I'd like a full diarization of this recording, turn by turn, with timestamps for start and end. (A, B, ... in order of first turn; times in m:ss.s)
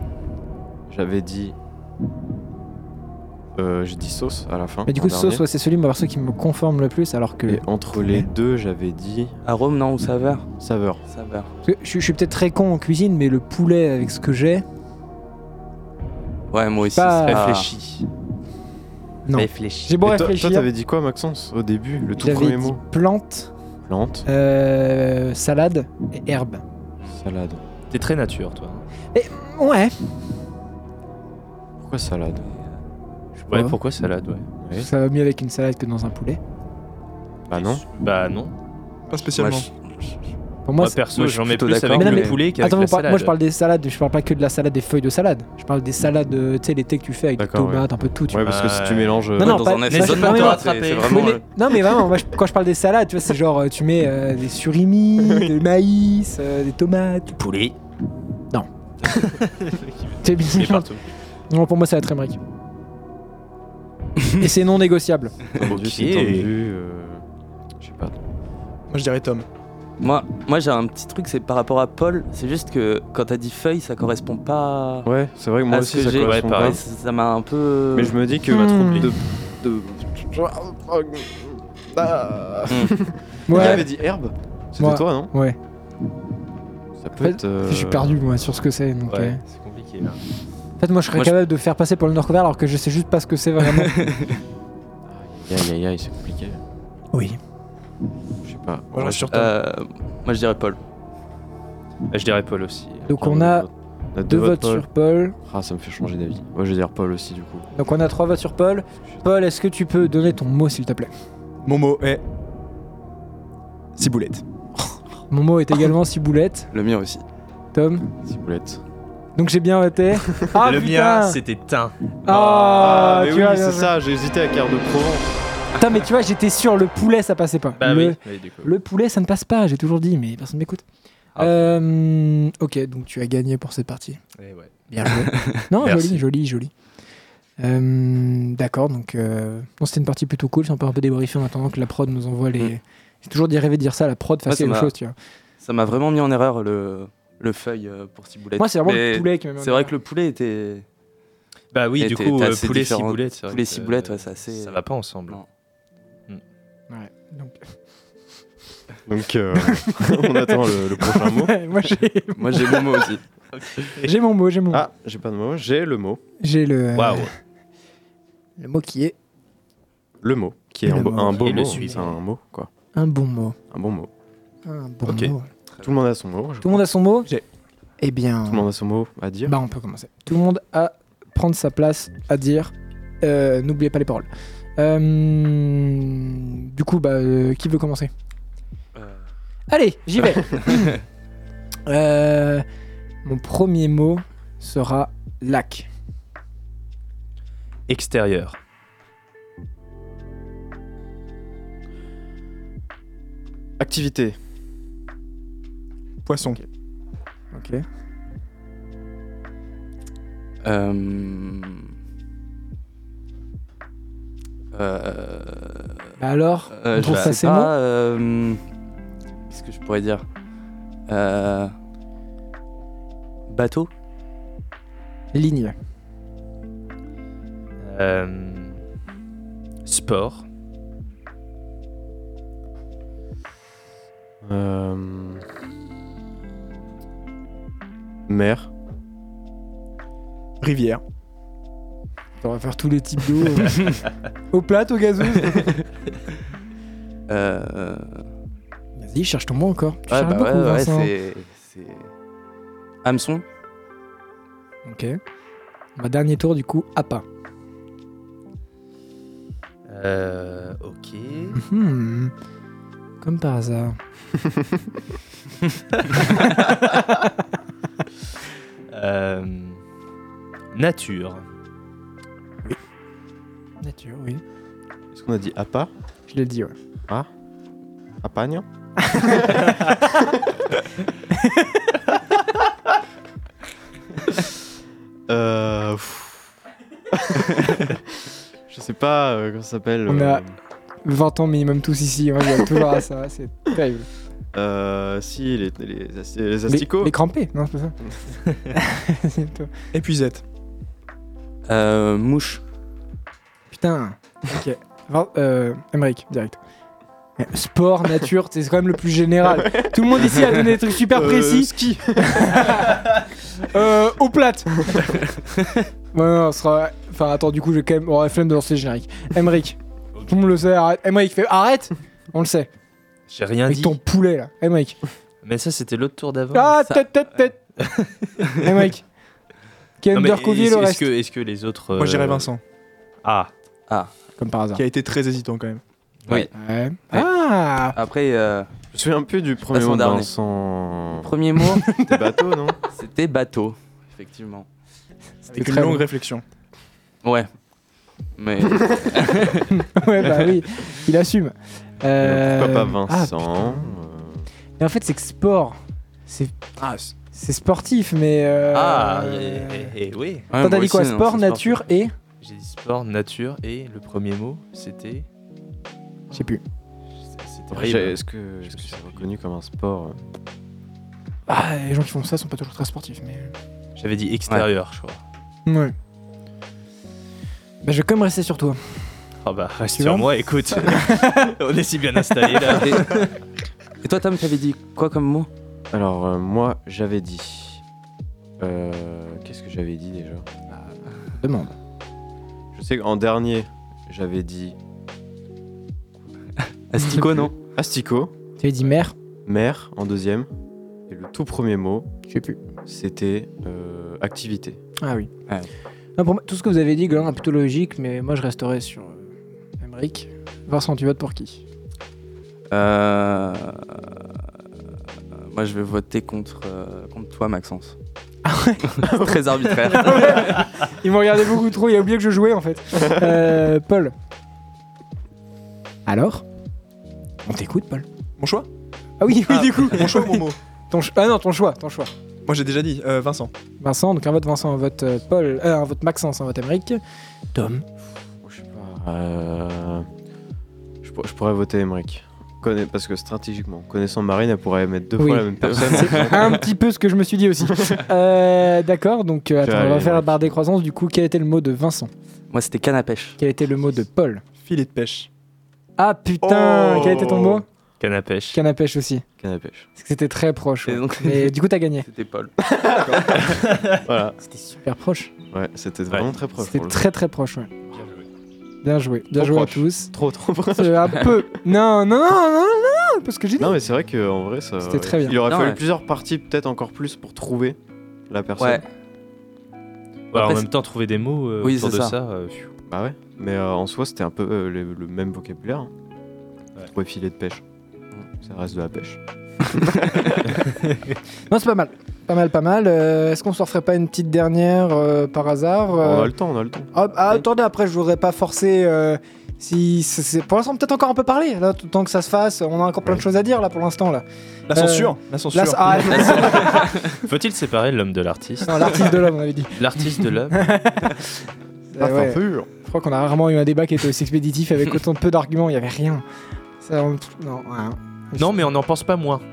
0:00.9-0:01.5 A
0:03.6-0:05.4 A
0:04.9-0:08.3 B
0:07.5-0:09.3 A
0:09.4-0:10.5 C
0:10.6-0:11.0 A
0:11.1-0:11.5 C
0:11.6-0:14.6 B
0:16.5-0:17.7 C
0:16.9-0:17.5 B
0:17.3-0:18.0 D
0:19.2-0:20.7 B
0:19.4-0:19.9 C
0:20.0-0:22.8 A
0:22.2-0:23.5 B
0:23.9-0:24.2 A
0:24.2-0:26.6 B
0:27.1-0:27.6 A
0:27.9-0:28.8 D
0:29.1-0:30.0 B
0:31.8-0:32.4 A
0:33.4-0:33.8 B
0:33.5-0:34.4 D
0:34.6-0:34.9 A
0:34.8-0:36.4 B
0:37.5-0:37.8 A
0:37.5-0:38.5 D
0:39.1-0:39.7 E
0:39.3-0:40.1 C
0:40.6-0:48.5 B
0:40.8-0:43.3 D
0:41.2-0:42.4 C
0:47.4-0:49.7 A
0:48.4-0:51.4 D
0:49.4-0:57.4 B
0:49.4-0:51.4 C
0:57.3-0:57.7 D
0:59.1-1:01.0 D
1:00.2-1:00.9 B
1:01.5-1:02.4 B
1:04.4-1:05.4 B
1:05.6-1:06.5 D
1:05.6-1:07.2 A
1:07.8-1:08.1 A
1:08.9-1:09.4 E
1:10.0-1:15.1 C
1:15.0-1:16.8 A
1:15.7-1:18.2 C
1:16.1-1:16.8 D
1:17.9-1:25.3 A
1:18.5-1:19.1 B
1:23.5-1:23.9 B
1:23.6-1:23.8 C
1:24.8-1:25.6 B
1:27.0-1:28.2 A
1:27.2-1:29.4 B
1:29.1-1:30.2 D
1:30.8-1:34.1 B
1:35.1-1:36.6 A
1:37.1-1:37.4 B
1:38.4-1:39.3 A
1:38.9-1:39.5 E
1:39.3-1:40.8 C
1:42.1-1:43.1 D
1:43.0-1:43.7 B
1:43.2-1:44.8 A
1:44.2-1:45.4 B
1:45.4-1:47.7 A
1:47.7-1:51.1 B
1:51.6-1:52.2 E
1:54.0-1:54.4 E
1:55.3-1:56.7 B
1:56.7-1:57.2 C
1:57.7-1:58.1 B
1:58.2-1:58.8 A
1:59.4-2:01.4 B
2:00.6-2:03.1 D
2:02.2-2:03.9 B
2:02.8-2:05.3 A
2:05.8-2:10.8 B
2:07.8-2:08.7 D
2:11.3-2:11.7 D
2:11.4-2:14.2 B
2:14.4-2:14.7 D
2:14.9-2:16.7 B
2:15.3-2:15.6 C
2:15.8-2:16.2 D
2:17.6-2:25.1 B
2:24.4-2:24.9 C
2:25.6-2:30.8 C
2:28.6-2:29.9 B
2:31.7-2:35.4 D
2:32.0-2:35.5 C
2:36.9-2:37.6 B
2:39.1-2:41.6 A
2:39.7-2:43.2 B
2:42.4-2:43.2 C
2:43.8-2:44.1 D
2:44.0-2:44.8 B
2:44.7-2:46.2 A
2:46.4-2:47.3 B
2:46.9-2:47.3 D
2:48.6-2:49.1 B
2:50.2-2:52.7 A
2:50.8-2:51.9 B
2:51.4-2:52.2 D
2:52.9-2:53.6 B
2:53.7-2:54.1 A
2:54.6-2:55.5 B
2:55.1-2:55.3 D
2:55.8-2:56.8 A
2:56.6-2:57.3 B
2:58.0-2:58.6 B
2:58.5-2:59.5 A
2:59.4-3:08.1 B
3:09.7-3:11.0 B
3:10.3-3:10.9 C
3:11.9-3:12.6 B
3:13.2-3:15.9 B
3:17.9-3:18.6 D
3:23.8-3:24.4 A
3:26.2-3:26.6 E
3:27.5-3:27.8 B
3:30.6-3:31.9 C
3:34.7-3:35.9 C
3:36.2-3:37.7 B
3:36.7-3:38.6 C
3:39.5-3:40.2 C
3:41.1-3:41.7 C
3:43.5-3:43.9 C
3:45.3-3:45.7 B
3:47.8-3:48.8 D
3:49.8-3:50.4 D
3:54.4-3:55.4 A
3:58.3-3:58.7 A
4:00.6-4:01.0 E
4:02.4-4:04.0 B
4:04.5-4:05.7 B
4:07.3-4:08.2 C
4:09.0-4:11.1 B
4:10.1-4:12.1 C
4:13.0-4:13.4 C
4:14.8-4:15.2 B
4:16.0-4:17.2 B
4:19.9-4:21.6 D
4:21.5-4:22.3 B
4:23.2-4:24.0 B
4:26.2-4:27.3 B
4:28.9-4:29.8 D
4:30.7-4:31.4 D
4:33.8-4:34.4 B
4:35.1-4:35.9 A
4:36.3-4:36.7 B
4:38.2-4:39.6 A
4:39.1-4:39.7 B
4:41.3-4:41.8 B
4:45.3-4:46.5 A
4:47.1-4:47.9 A
4:48.7-4:50.5 A
4:50.1-4:50.4 B
4:51.0-4:54.1 B
4:54.5-4:57.1 A
4:56.7-4:58.0 B
4:58.7-4:59.7 B
4:59.9-5:00.4 E
5:01.7-5:02.6 C
5:03.7-5:06.6 B
5:07.4-5:15.1 B
5:11.1-5:12.4 A
5:16.1-5:19.8 B
5:20.3-5:22.7 B
5:23.3-5:24.0 D
5:23.7-5:25.0 B
5:25.4-5:26.8 D
5:26.5-5:27.6 B
5:27.8-5:28.5 D
5:28.6-5:29.0 B
5:30.0-5:31.1 B
5:30.1-5:32.5 D
5:32.0-5:32.6 E
5:33.2-5:33.5 D
5:34.4-5:34.8 B
5:34.8-5:35.8 E
5:36.5-5:38.0 B
5:37.9-5:38.7 C
5:38.9-5:41.3 A
5:39.7-5:40.3 C
5:41.2-5:41.9 C
5:41.7-5:42.1 B
5:41.9-5:42.8 A
5:42.9-5:44.7 C
5:45.5-5:46.1 B
5:45.5-5:46.4 E
5:47.2-5:47.5 C
5:48.4-5:49.7 C
5:49.9-5:53.9 B
5:52.2-5:54.4 A
5:54.8-5:59.9 B
5:58.7-6:00.5 D
6:00.5-6:01.8 C
6:00.6-6:02.1 B
6:02.4-6:05.2 D
6:06.3-6:06.6 B
6:07.2-6:09.3 D
6:07.7-6:10.2 A
6:11.5-6:13.5 B
6:14.0-6:15.2 D
6:15.6-6:15.9 B
6:17.8-6:19.0 B
6:19.4-6:23.3 D
6:20.0-6:21.5 B
6:22.8-6:23.2 C
6:24.0-6:25.5 C
6:25.9-6:27.8 A
6:28.6-6:30.4 A
6:30.7-6:31.7 B
6:32.7-6:34.8 A
6:36.9-6:37.6 C
6:37.7-6:38.3 A
6:38.6-6:39.1 B
6:39.4-6:40.5 A
6:41.1-6:42.1 A
6:42.3-6:42.6 B
6:42.8-6:44.8 A
6:45.0-6:45.3 B
6:46.2-6:51.6 B
6:52.7-6:54.0 C
6:55.4-6:58.0 C
6:58.4-6:58.8 B
6:59.0-7:00.6 C
6:59.1-6:59.4 A
6:59.9-7:04.1 B
7:06.0-7:06.4 B
7:07.4-7:08.0 B
7:08.4-7:08.7 E
7:09.2-7:12.1 B
7:09.5-7:10.6 E
7:12.4-7:13.5 E
7:13.8-7:17.0 B
7:17.5-7:17.8 B
7:18.4-7:20.0 A
7:21.0-7:26.6 A
7:25.2-7:32.1 B
7:25.6-7:26.6 C
7:29.6-7:30.6 A
7:32.5-7:33.4 C
7:33.4-7:34.4 B
7:34.6-7:35.3 E
7:36.0-7:37.6 B
7:36.4-7:37.6 A
7:38.0-7:38.6 D
7:38.5-7:39.2 B
7:39.4-7:39.9 A
7:40.0-7:42.1 B
7:40.8-7:42.5 C
7:42.6-7:44.4 A
7:44.7-7:45.3 B
7:45.5-7:47.0 A
7:46.6-7:47.7 B
7:48.8-7:50.1 B
7:49.3-7:51.2 A
7:50.7-7:53.7 B
7:53.6-7:57.8 A
7:54.8-7:55.4 B
7:55.4-7:55.8 C
7:58.3-7:58.8 A
7:58.6-7:58.8 C
8:00.3-8:02.7 D
8:00.3-8:00.7 C
8:01.6-8:02.2 C
8:02.9-8:05.9 A
8:06.8-8:07.6 A
8:08.4-8:09.7 A
8:11.5-8:16.3 B
8:16.0-8:16.9 A
8:16.9-8:26.8 B
8:24.7-8:26.4 E
8:26.2-8:29.2 D
8:28.6-8:31.3 B
8:29.8-8:30.7 D
8:31.9-8:36.2 B
8:32.0-8:32.6 A
8:32.2-8:32.6 E
8:36.8-8:38.7 B
8:38.4-8:39.4 D